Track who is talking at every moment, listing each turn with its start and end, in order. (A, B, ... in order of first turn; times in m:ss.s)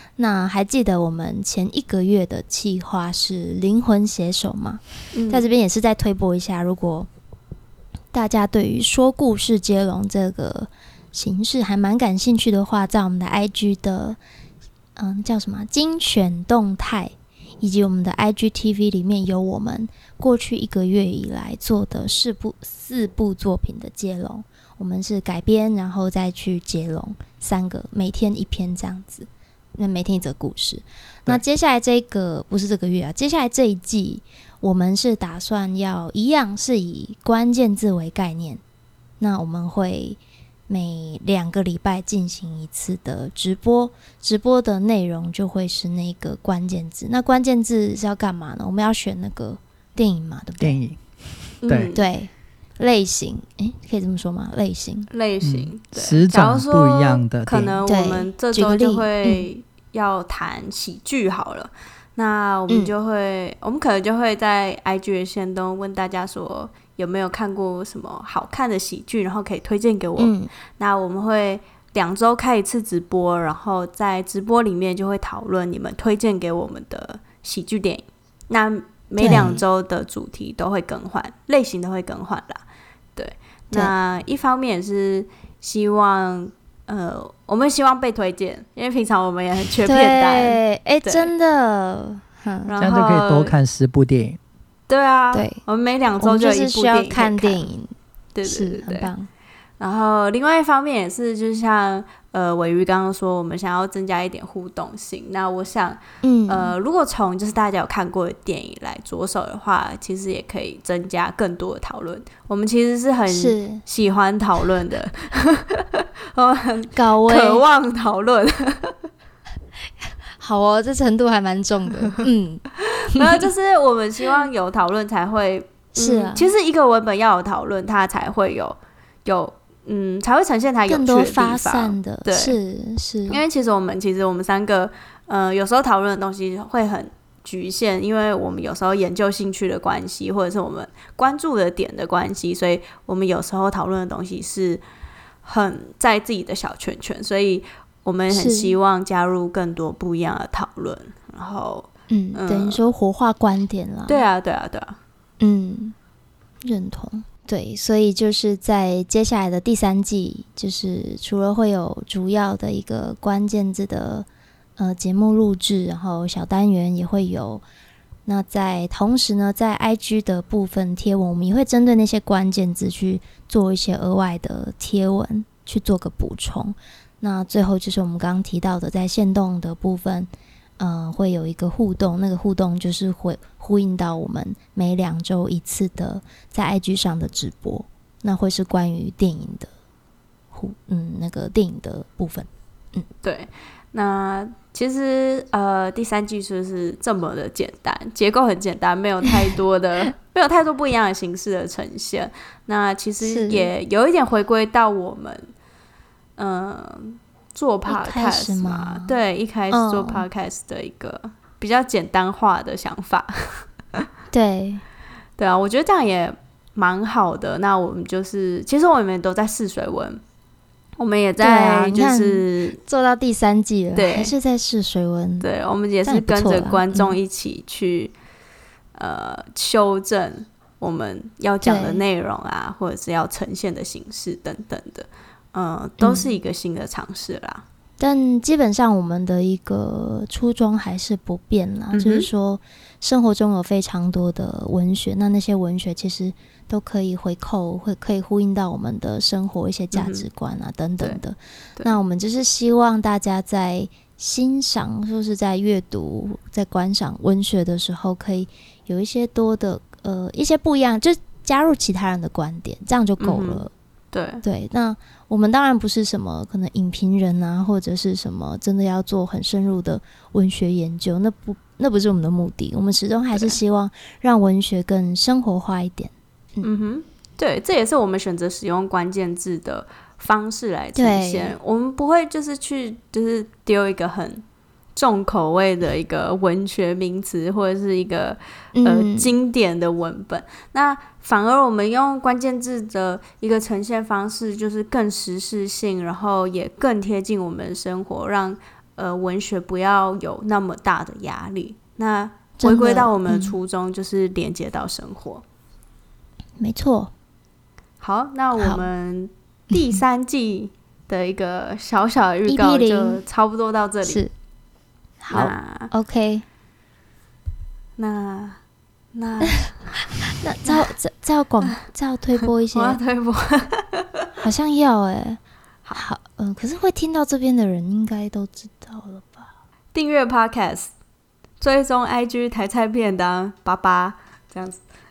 0:00.2-0:07.1 A
0:05.1-0:05.5 B
0:08.1-0:14.2 A
0:15.0-0:38.6 A
0:39.2-0:50.8 A
0:50.6-0:51.0 C
0:51.6-0:51.9 C
0:51.6-0:52.0 B
0:51.9-0:55.1 A
0:55.1-1:22.6 B
0:55.4-0:57.8 C
0:57.8-0:59.5 A
1:10.2-1:10.5 A
1:19.2-1:19.6 A
1:23.2-1:31.3 B
1:29.8-1:32.8 A
1:32.6-1:33.6 B
1:32.8-1:34.4 C
1:34.9-1:37.6 B
1:35.3-1:35.6 A
1:36.2-1:37.9 A
1:38.3-1:39.1 B
1:38.4-1:39.3 A
1:39.8-1:59.0 B
1:46.2-1:46.8 A
1:53.3-1:53.8 A
1:56.9-1:57.6 A
2:00.3-2:03.4 A
2:03.1-2:12.6 B
2:06.0-2:06.5 A
2:10.9-2:13.4 A
2:13.3-2:24.8 B
2:25.4-2:32.8 B
2:28.3-2:28.8 A
2:32.1-2:34.2 A
2:34.1-2:35.0 B
2:35.4-2:35.9 A
2:36.6-2:47.6 A
2:48.2-3:09.7 A
3:10.5-3:13.0 A
3:13.2-3:25.4 B
3:23.2-3:23.7 A
3:26.4-3:34.0 B
3:27.9-3:29.2 A
3:29.7-3:30.2 A
3:34.3-3:34.8 A
3:35.4-3:40.2 B
3:41.0-3:42.8 B
3:41.4-3:45.5 A
3:43.9-3:44.3 B
3:45.4-3:48.1 B
3:46.0-3:47.2 A
3:48.9-3:57.6 B
3:51.6-3:52.0 A
3:56.0-3:56.3 A
3:58.0-4:23.7 A
4:01.9-4:02.3 B
4:09.9-4:10.3 B
4:23.2-4:24.4 B
4:24.4-4:36.7 A
4:36.6-4:44.4 B
4:41.0-4:41.6 A
4:45.0-5:05.4 B
4:48.7-4:49.3 A
5:02.6-5:03.6 A
5:06.6-5:07.1 A
5:08.0-5:14.2 B
5:08.6-5:08.8 A
5:12.4-5:13.2 A
5:14.0-5:14.3 A
5:15.2-5:16.4 A
5:15.3-5:15.9 B
5:18.0-5:18.6 B
5:19.1-5:20.0 B
5:20.3-5:23.0 A
5:22.7-5:24.3 B
5:24.4-5:25.4 A
5:25.9-5:29.5 A
5:29.9-5:30.9 B
5:31.6-5:34.8 B